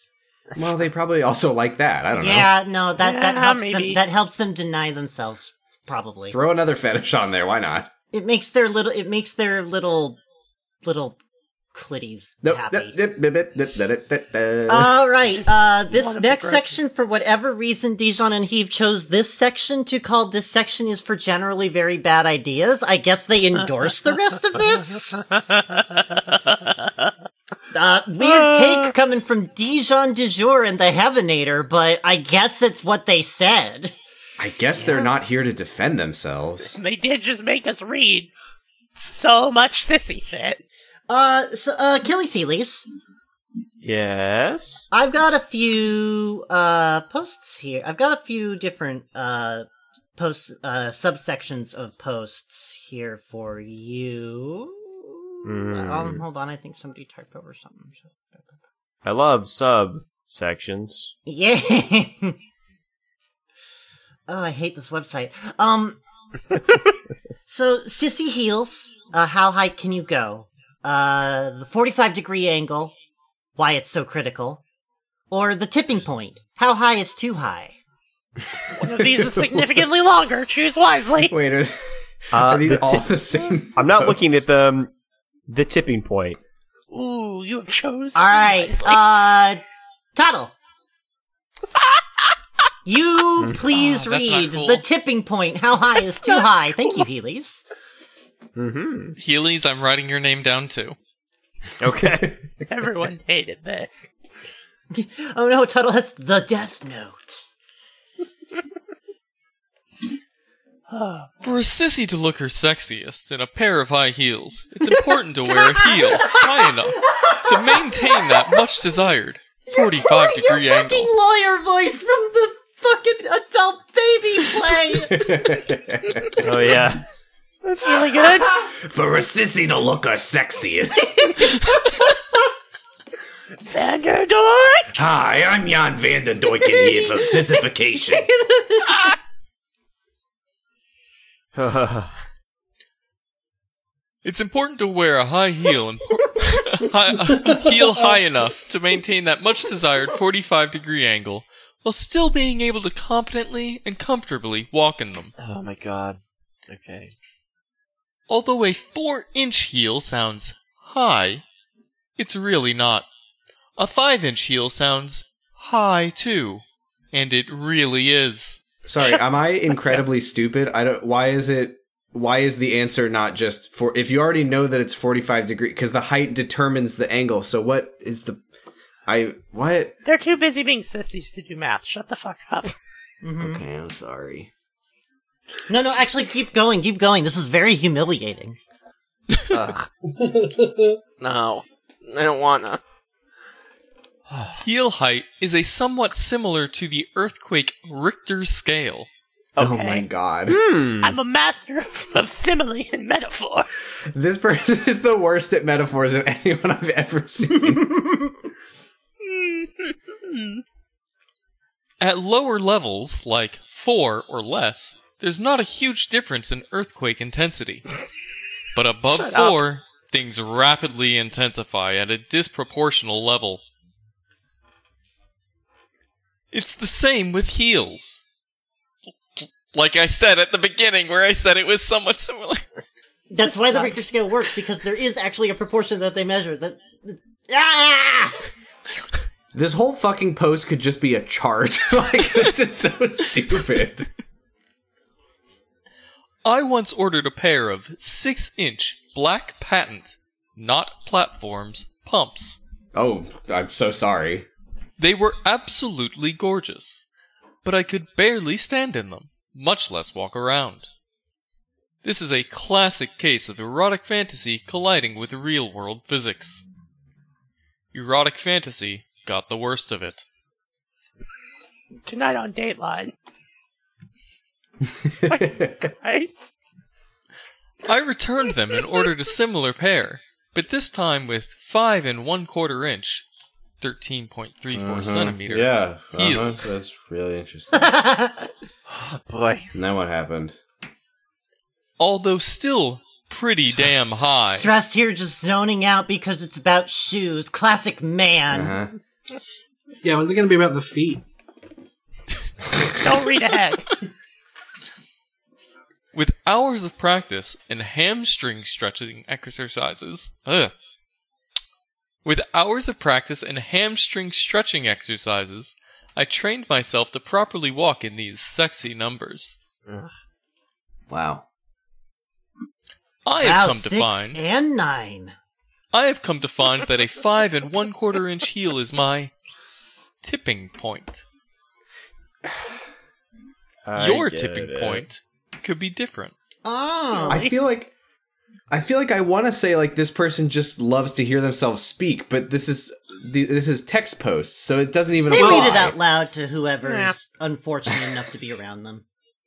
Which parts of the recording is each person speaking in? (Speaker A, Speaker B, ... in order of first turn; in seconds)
Speaker A: 0.6-2.5, 6.3-7.9, 12.4-15.0, 34.4-36.8, 78.9-79.8, 81.3-84.5, 102.0-102.3, 125.1-126.7, 128.5-131.6, 134.9-138.3, 168.8-178.4, 179.1-179.9, 183.4-184.5, 199.6-200.6, 204.1-208.0, 239.5-244.1, 252.9-254.5, 275.0-275.9, 284.7-287.9, 289.7-290.6, 298.5-298.9, 321.1-321.4, 337.3-337.9, 338.7-346.0
Speaker B: 2.1-6.4, 8.1-10.2, 10.8-11.2, 11.7-13.0, 14.7-25.2, 27.7-33.9, 34.7-35.1, 41.1-42.9, 44.9-49.6, 50.2-58.6, 61.2-62.4, 64.3-66.0, 67.5-72.9, 73.6-74.6, 75.3-77.7, 88.1-89.6, 90.1-90.5, 92.8-97.6, 104.9-107.5, 115.4-118.6, 119.7-125.3, 137.0-137.4, 138.2-139.0, 183.2-183.6, 185.7-188.6, 233.3-238.5, 287.7-288.5, 294.4-298.8, 323.4-325.3, 336.6-337.4, 345.3-349.0
Speaker C: 3.0-4.0, 15.3-16.8, 25.3-27.1, 28.2-28.9, 36.6-38.3, 39.0-40.6, 78.7-81.3, 86.9-89.0, 91.7-92.3, 96.3-97.0, 102.7-104.1, 110.9-111.3, 127.6-128.5, 133.6-135.0, 169.0-170.0, 180.0-182.7, 199.6-200.0, 201.0-203.7, 209.3-209.7, 210.3-210.6, 219.1-219.6, 233.4-234.1, 272.1-273.1, 275.3-276.5, 303.0-303.9, 337.1-337.6, 346.8-347.1
Speaker D: 43.8-44.8, 55.4-56.2, 59.0-61.1, 82.3-83.1, 83.7-84.9, 85.5-86.4, 93.4-93.7, 98.5-99.2, 101.8-102.3, 126.4-127.0, 141.6-142.2, 200.5-201.2, 333.8-335.1
Speaker E: 93.7-94.8, 99.2-101.0, 111.4-121.1, 144.2-155.3, 158.3-161.4, 162.2-163.1, 163.8-168.6, 194.6-199.1, 212.0-217.9, 218.7-223.6, 226.5-228.2, 229.4-232.6, 246.4-252.6, 255.0-257.1, 257.6-260.9, 262.0-266.6, 267.9-270.2, 277.8-283.2, 283.8-286.8, 292.0-294.7, 306.1-310.7, 312.2-319.6, 323.2-324.4, 325.9-329.3, 330.2-331.2, 333.9-336.3
Speaker F: 147.3-147.9, 190.2-190.9, 300.0-301.2, 345.3-345.8
Speaker G: 155.4-157.1, 189.5-189.9, 191.2-192.8, 194.3-194.6, 288.9-289.7